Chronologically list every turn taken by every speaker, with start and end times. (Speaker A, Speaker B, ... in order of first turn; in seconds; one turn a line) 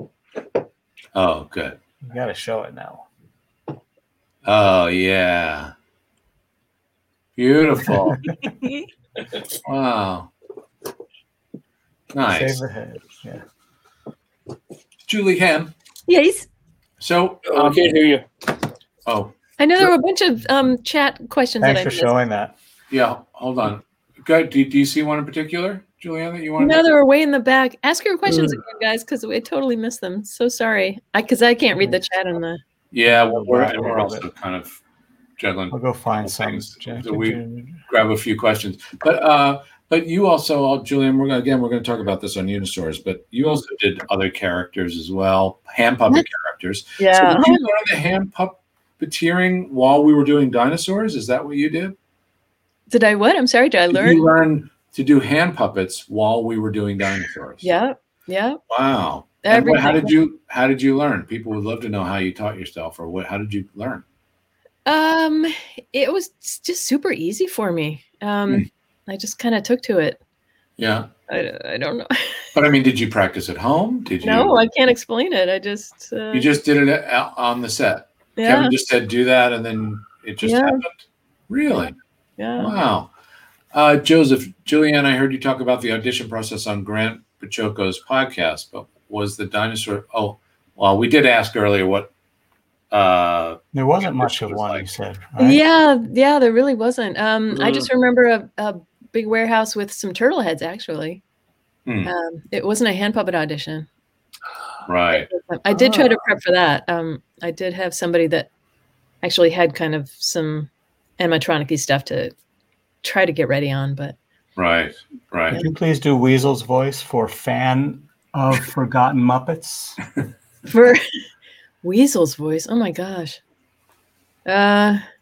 Speaker A: 1.1-1.8
Speaker B: 2.0-3.1
Speaker A: 4.5-5.7
Speaker A: 7.4-8.2
Speaker C: 8.6-8.9
Speaker A: 9.7-10.3
Speaker A: 12.1-12.6
Speaker B: 12.3-13.4
Speaker A: 15.1-15.7
Speaker C: 16.1-16.5
Speaker A: 17.0-17.9
Speaker D: 17.4-18.2
Speaker A: 19.1-19.3
Speaker C: 19.6-22.1
Speaker B: 21.6-22.5
Speaker A: 22.9-26.8
Speaker C: 26.6-32.6
Speaker D: 28.3-28.6
Speaker A: 32.9-34.8
Speaker B: 33.1-34.3
Speaker A: 35.4-52.0
Speaker B: 35.7-37.8
Speaker C: 47.0-47.6
Speaker C: 52.9-54.3
Speaker A: 53.9-57.7
Speaker C: 57.6-58.6
Speaker A: 58.7-64.0
Speaker C: 59.4-60.1
Speaker C: 64.9-70.2
Speaker A: 70.8-71.1
Speaker C: 71.3-72.4
Speaker A: 72.5-74.6
Speaker C: 74.2-76.5
Speaker A: 76.3-82.0
Speaker C: 78.4-78.7
Speaker C: 80.4-80.8
Speaker C: 82.4-82.8
Speaker A: 82.6-83.1
Speaker A: 83.7-92.1
Speaker A: 92.9-94.9
Speaker B: 93.7-95.6
Speaker C: 95.4-101.2
Speaker D: 97.6-97.8
Speaker A: 101.9-102.1
Speaker C: 102.0-103.9
Speaker A: 104.9-105.3
Speaker C: 105.1-108.5
Speaker D: 105.7-106.2
Speaker C: 109.2-112.3
Speaker C: 113.0-114.2
Speaker A: 114.6-115.6
Speaker B: 115.5-120.0
Speaker C: 120.7-121.0
Speaker C: 121.8-123.4
Speaker C: 124.5-125.0